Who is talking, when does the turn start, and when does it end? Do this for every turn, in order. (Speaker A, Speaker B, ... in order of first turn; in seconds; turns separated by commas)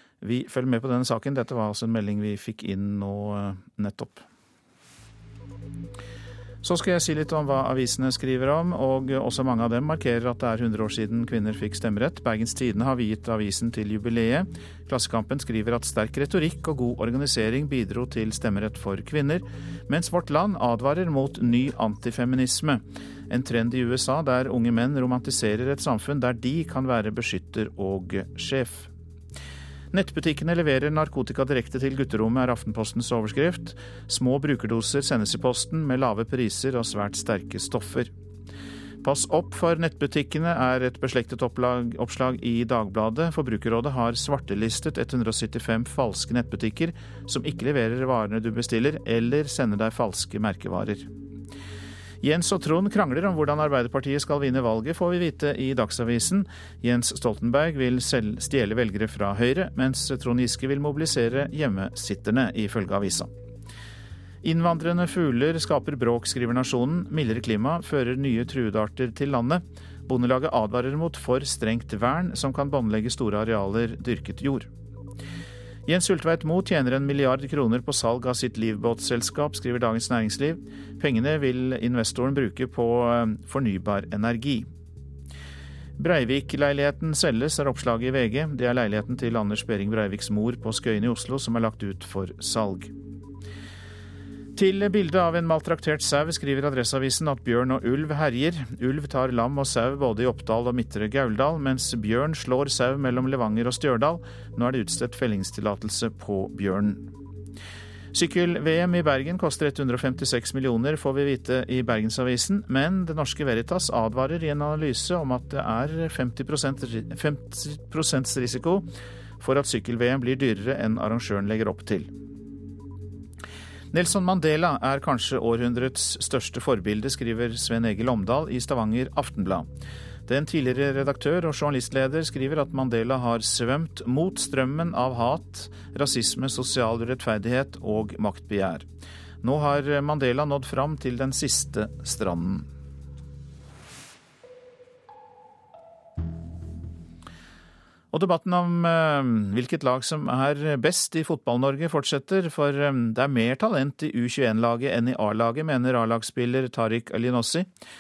Speaker A: 0.2-4.2, Speaker A: 6.6-28.9, Speaker A: 29.9-38.1, Speaker A: 39.0-51.1, Speaker A: 52.2-63.3, Speaker A: 64.4-74.7, Speaker A: 75.9-84.7, Speaker A: 86.0-92.9, Speaker A: 94.6-107.1, Speaker A: 108.1-118.9, Speaker A: 119.4-122.1, Speaker A: 123.9-129.7, Speaker A: 130.3-138.9, Speaker A: 139.4-142.7, Speaker A: 148.1-157.7